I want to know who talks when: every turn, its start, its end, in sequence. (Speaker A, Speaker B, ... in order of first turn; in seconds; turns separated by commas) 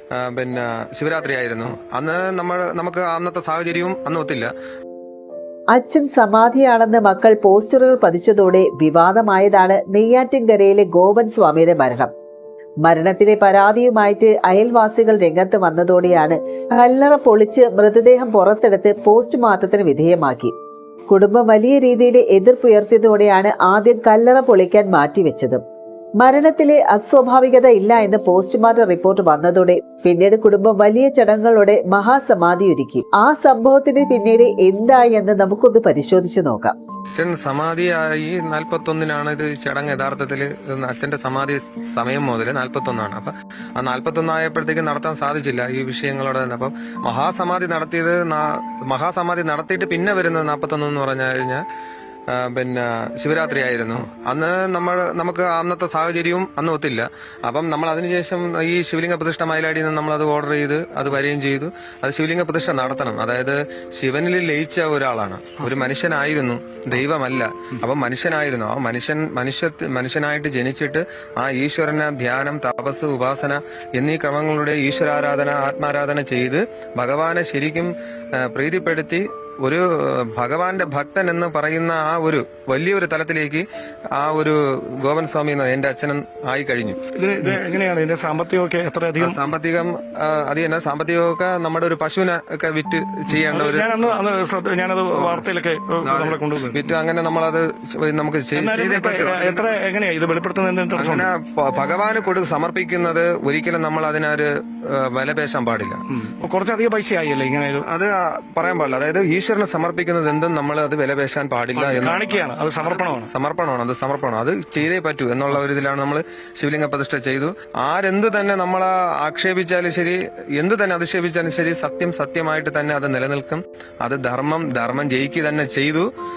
Speaker A: 0.2-4.5, Speaker B: 5.7-12.1, Speaker B: 12.8-20.5, Speaker B: 21.1-25.6, Speaker B: 26.2-36.7, Speaker A: 37.1-51.6, Speaker A: 52.3-83.6, Speaker A: 84.2-87.6, Speaker C: 87.2-89.4, Speaker A: 89.2-94.0, Speaker C: 93.4-96.9, Speaker A: 96.0-99.7, Speaker C: 98.5-101.3, Speaker A: 101.0-106.0, Speaker C: 106.1-107.8, Speaker A: 107.8-112.3, Speaker C: 111.7-113.3, Speaker A: 112.8-126.1